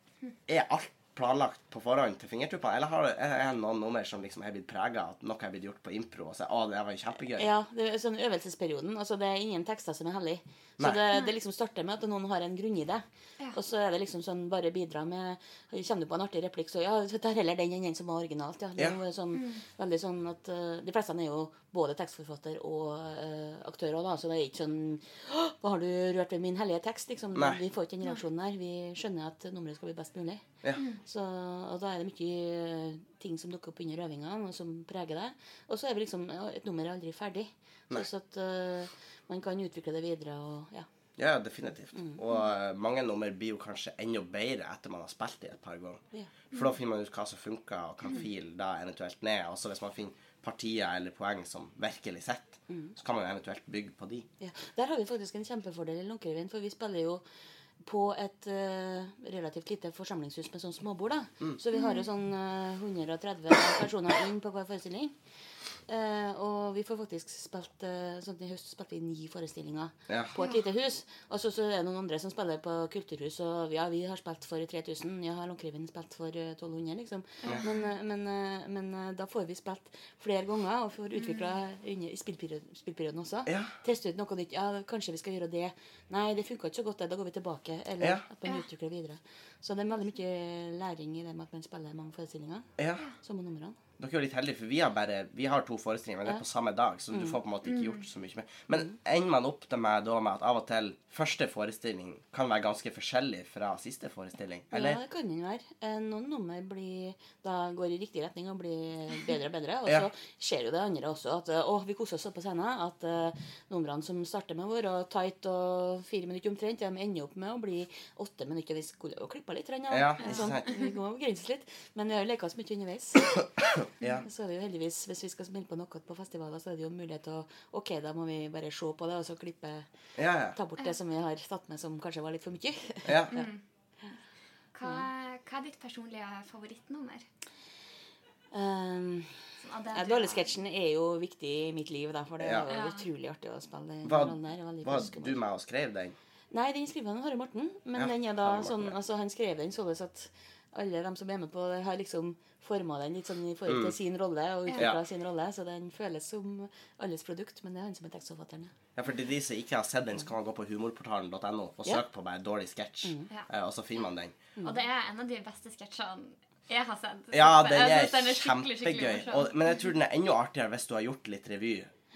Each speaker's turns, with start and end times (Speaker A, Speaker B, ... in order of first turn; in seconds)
Speaker A: 0.5-7.5, 27.3-27.6, 41.2-54.3, 70.1-70.3, 83.5-83.7, 88.0-88.2, 92.8-93.0, 94.0-105.0, 119.9-120.7, 123.3-124.2, 130.2-130.6, 133.1-133.3, 142.4-142.7, 144.0-146.1, 148.0-148.9, 153.7-153.9, 158.9-164.4, 167.3-171.9
Speaker B: 7.4-30.4, 31.0-40.9, 54.4-57.2, 57.8-65.2, 65.9-93.8, 97.1-97.4, 104.7-123.5, 124.2-129.9, 130.5-133.4, 138.5-145.4, 146.5-158.7
Speaker C: 19.3-19.6, 61.7-62.0, 77.4-77.8, 81.2-81.5, 97.7-98.0, 120.2-120.9, 133.3-133.6, 134.7-137.2, 139.6-140.5, 142.7-143.1, 164.6-169.5